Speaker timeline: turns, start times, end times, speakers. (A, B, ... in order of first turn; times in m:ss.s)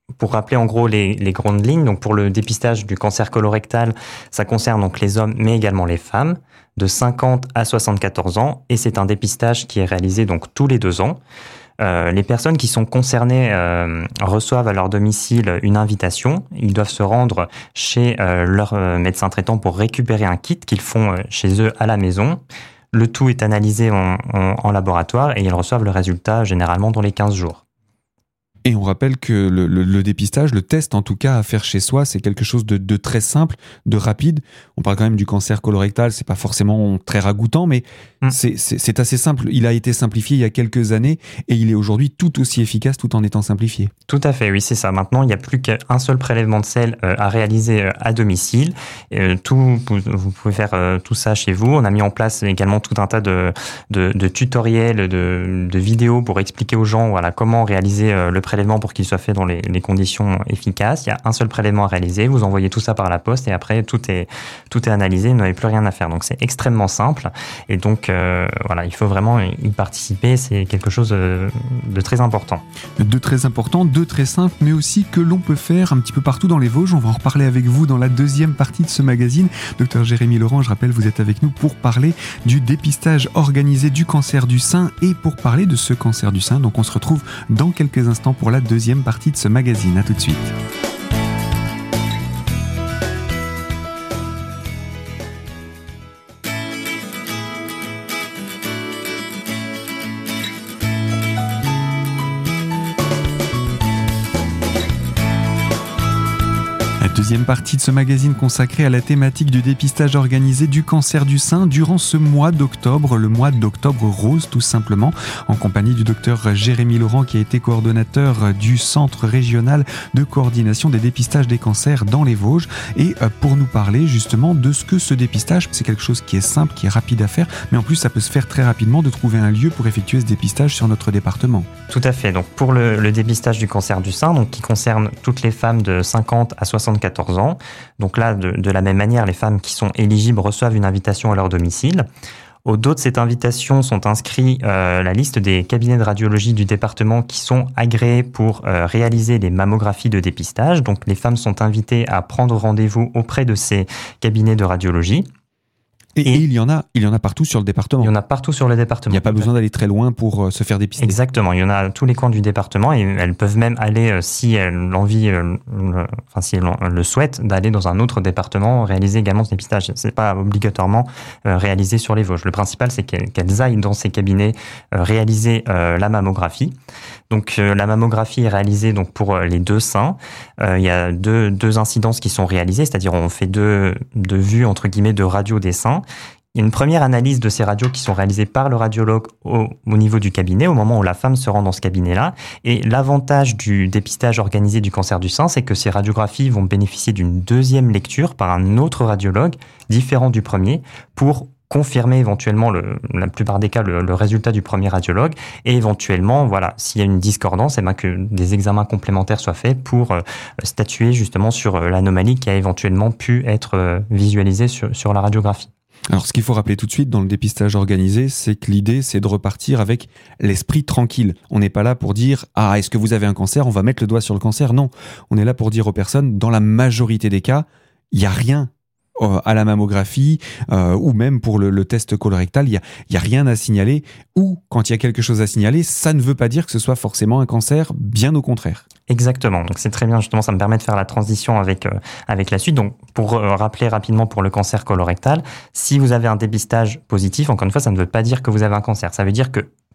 0:00.2-0:11.2 A
0:11.8-0:22.4 A
0:22.9-0:27.6 A
0:28.6-0:43.9 B
0:44.1-1:12.6 A
1:13.0-1:30.5 B
1:47.0-2:11.7 B
2:11.9-2:22.0 A
2:22.6-2:35.3 A
2:36.2-2:38.1 B
2:38.0-2:39.5 A
2:39.1-2:41.2 B
2:41.0-2:56.7 A
2:57.3-3:06.0 A
3:06.5-3:35.7 A
3:36.1-3:58.8 B
3:59.1-4:09.7 A